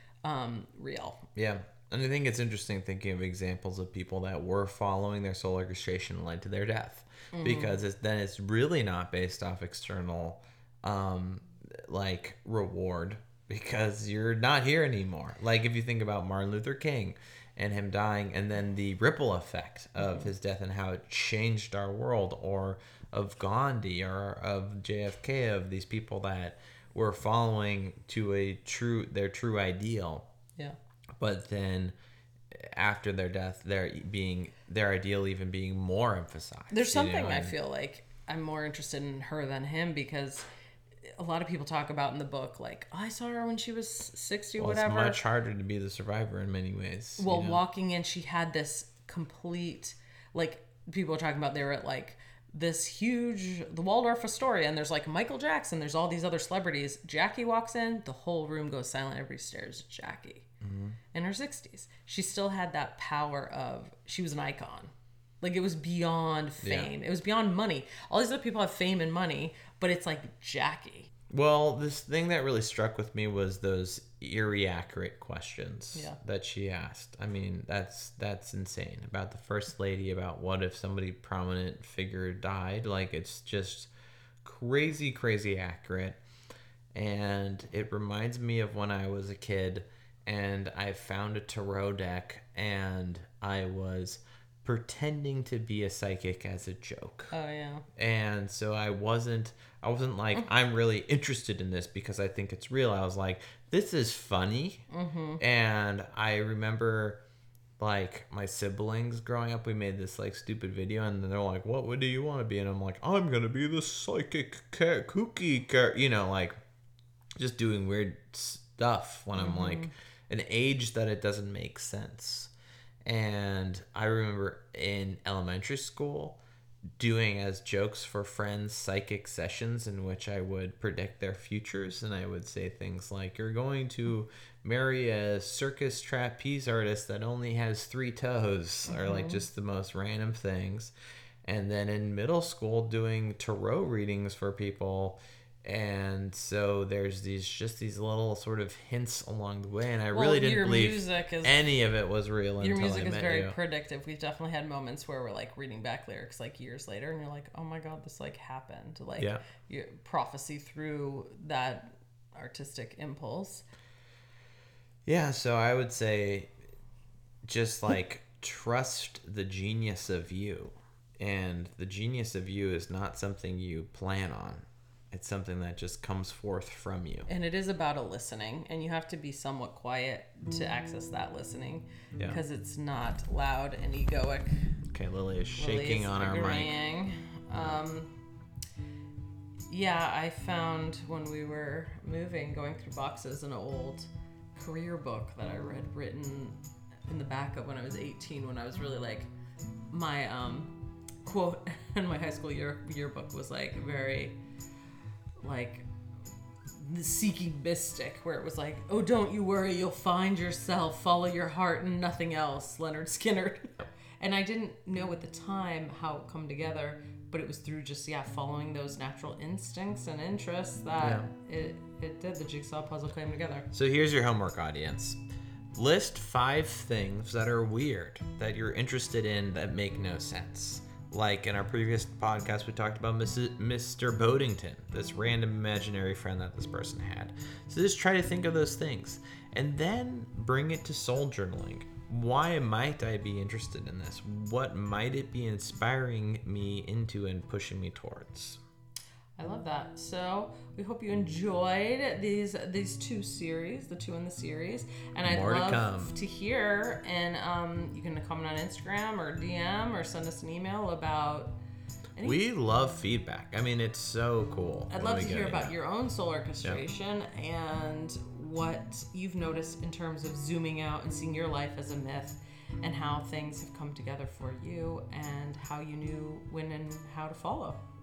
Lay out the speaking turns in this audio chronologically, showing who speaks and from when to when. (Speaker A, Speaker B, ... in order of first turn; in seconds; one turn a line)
Speaker A: 0.2-1.3
Speaker B: 1.4-30.3
Speaker A: 7.3-7.8
Speaker B: 31.2-31.9
Speaker B: 32.5-37.5
Speaker A: 36.7-40.5
Speaker A: 41.2-45.2
Speaker B: 44.6-47.6
Speaker A: 47.2-60.5
Speaker B: 60.6-61.0
Speaker A: 61.1-71.1
Speaker B: 66.6-66.9
Speaker B: 71.3-83.9
Speaker B: 84.4-86.2
Speaker B: 86.9-97.3
Speaker A: 97.3-97.9
Speaker B: 98.0-104.8
Speaker A: 104.9-105.4
Speaker B: 105.4-107.2
Speaker B: 107.8-116.5
Speaker B: 117.4-122.5
Speaker A: 119.4-119.9
Speaker B: 123.0-126.4
Speaker B: 127.0-140.9
Speaker A: 138.9-139.4
Speaker B: 141.4-153.6
Speaker A: 150.1-151.6
Speaker A: 152.6-163.7
Speaker B: 165.1-166.5
Speaker B: 167.4-177.3
Speaker A: 177.3-184.7
Speaker B: 182.2-182.4
Speaker B: 184.9-186.8
Speaker A: 185.6-188.1
Speaker B: 187.5-187.8
Speaker A: 189.7-199.3
Speaker A: 199.9-204.4
Speaker A: 205.4-205.9
Speaker A: 206.8-223.7
Speaker B: 221.0-221.3
Speaker B: 223.7-225.2
Speaker B: 225.7-248.6
Speaker A: 249.4-261.6
Speaker B: 255.2-256.1
Speaker A: 262.2-262.4
Speaker B: 262.2-265.7
Speaker A: 264.9-277.8